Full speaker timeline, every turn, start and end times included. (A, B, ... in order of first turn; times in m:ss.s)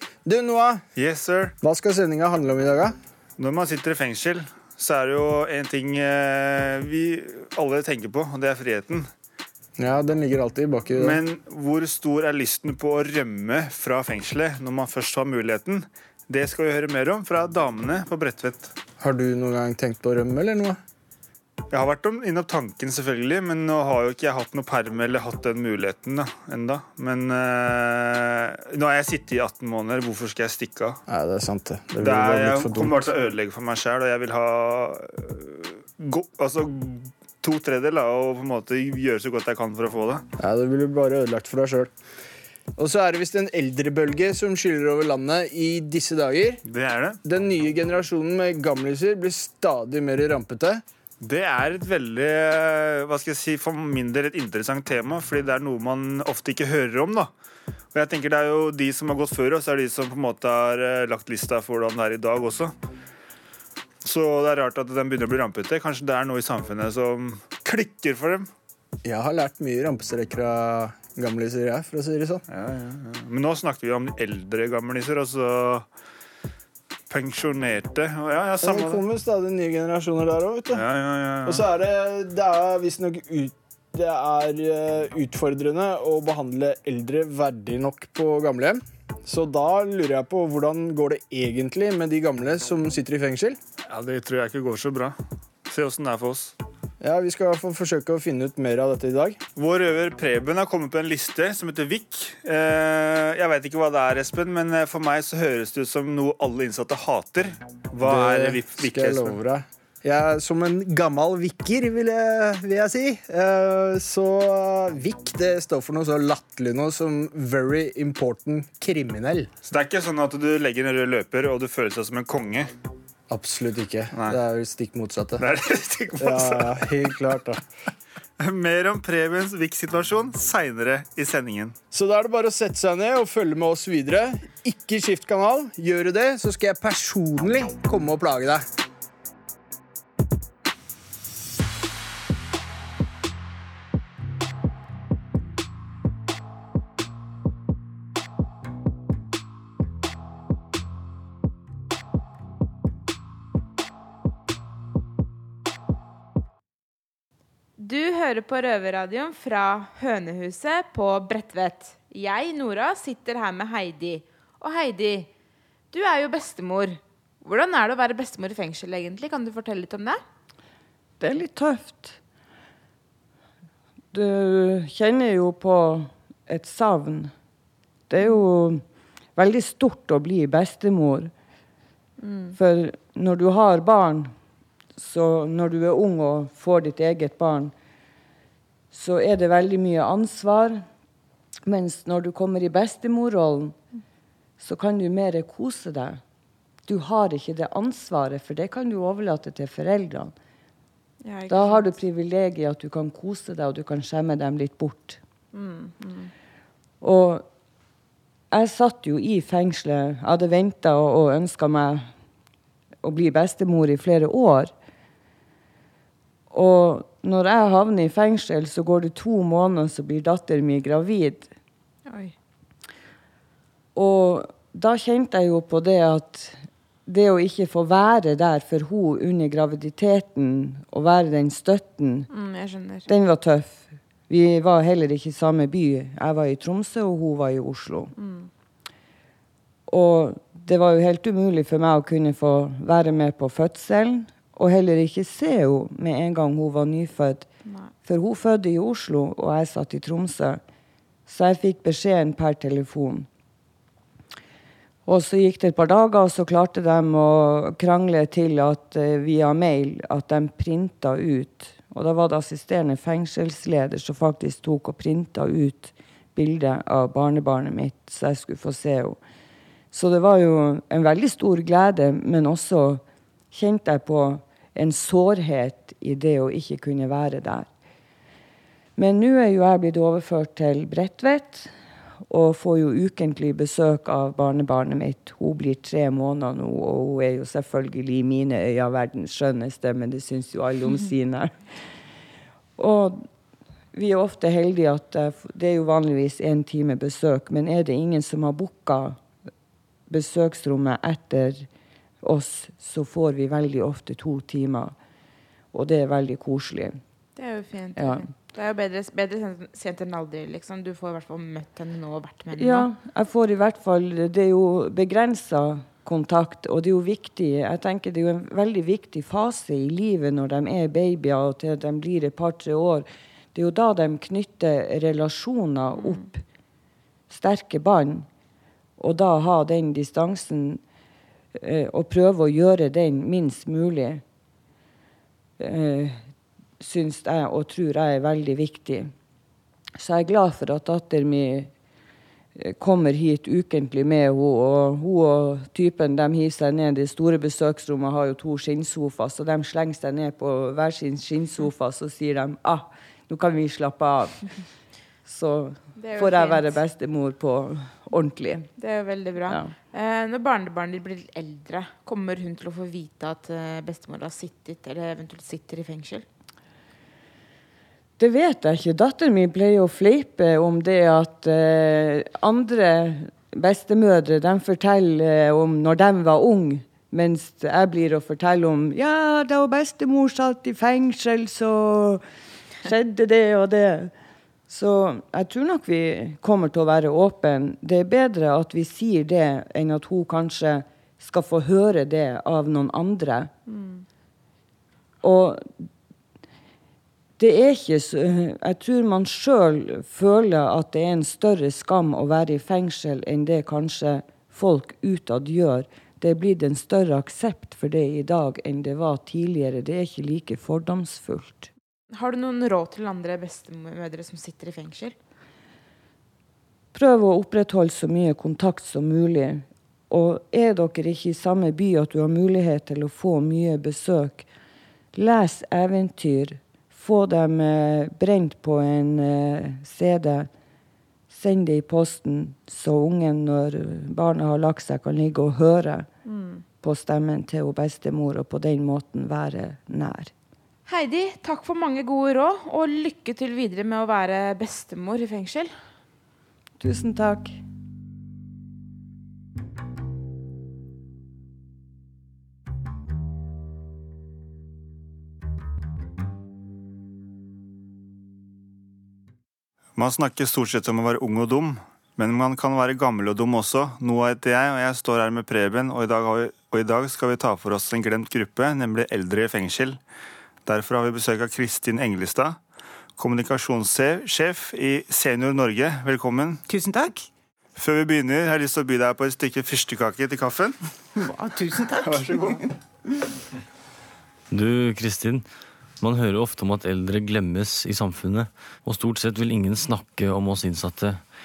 0:00.3-0:00.8 A
0:01.0-0:01.5 B
0:01.6-0:03.0 A
0:03.4-0:09.1 B
0:09.8-0:11.2 A
0:11.0-0:18.7 B
0:19.0-0:20.8 A
0:21.7-0:31.0 B
0:31.1-0:33.1 A
0:32.0-0:40.2 B
0:40.4-0:41.9 A
0:42.8-0:46.6 A
0:46.6-0:47.2 B
0:47.2-0:50.8 A
0:51.2-0:57.3 B
0:57.9-1:02.7 B
1:04.0-1:08.5 B
1:09.0-1:12.4 A
1:12.5-1:15.9 B
1:17.1-1:19.0 B
1:18.6-1:20.8 A
1:20.7-1:21.6 B
1:21.4-1:33.6 A
1:33.9-1:36.5 B
1:37.0-1:39.4 A
1:39.6-1:49.4 B
1:48.0-1:59.5 A
1:59.7-2:02.7 B
2:03.3-2:05.4 A
2:04.1-2:04.4 B
2:05.4-2:06.8 B
2:06.2-2:07.6 A
2:08.4-2:11.8 B
2:11.9-2:18.6 A
2:37.8-2:45.3 C
2:45.9-2:50.2 C
2:51.2-2:52.2 D
2:54.1-2:57.3 D
2:58.1-2:58.8 D
2:59.4-3:01.3 D
3:02.2-3:02.6 C
3:02.6-3:04.3 D
3:05.0-3:07.7 D
3:08.9-3:10.8 D
3:11.7-3:13.8 D
3:14.6-3:16.2 D
3:16.9-3:20.3 D
3:21.2-3:21.9 C
3:21.5-3:25.2 D
3:25.5-3:26.3 C
3:27.0-3:27.5 D
3:28.5-3:32.1 D
3:33.0-3:34.7 D
3:36.5-3:41.5 D
3:42.1-3:42.4 C
3:44.0-3:52.3 D
3:52.3-3:53.1 C
3:53.1-3:58.1 D
3:58.2-3:58.5 C
3:59.9-4:07.5 D
4:07.6-4:07.9 C
4:08.0-4:10.6 D
4:11.3-4:13.3 D
4:15.1-4:29.2 D
4:29.9-4:37.7 D
4:39.0-4:41.7 D
4:42.3-4:51.6 D
4:52.8-4:53.3 D
4:53.9-4:59.2 D
5:00.1-5:01.7 D
5:02.2-5:05.0 D
5:05.7-5:07.0 D
5:07.4-5:12.9 C
5:08.0-5:08.3 D
5:12.6-5:26.4 D
5:25.9-5:26.3 C
5:27.3-5:28.3 D
5:29.0-5:30.8 D
5:31.6-5:34.2 D
5:35.6-5:36.2 D
5:36.8-5:39.1 D
5:40.0-5:41.7 D
5:42.6-5:54.5 D
5:55.3-5:58.7 D
5:56.0-5:56.8 C
5:58.8-6:06.3 C
5:59.5-5:59.7 D
6:08.2-6:22.2 D
6:22.8-6:24.1 D
6:24.7-6:33.5 D
6:33.7-6:34.0 C
6:35.2-6:35.9 D
6:37.4-6:51.7 D
6:52.1-6:55.2 C
6:56.9-7:04.5 D
7:05.2-7:10.5 D
7:11.3-7:16.1 D
7:16.3-7:16.6 C
7:16.8-7:20.3 D
7:20.9-7:25.7 C
7:26.8-7:27.6 D
7:40.0-7:50.0 B
7:50.6-7:52.6 B
7:53.2-7:56.6 B
7:56.7-7:57.3 E
7:57.8-8:00.8 B
8:01.2-8:02.7 E
8:02.0-8:02.6 B
8:04.5-8:05.5 F
8:06.0-8:11.2 F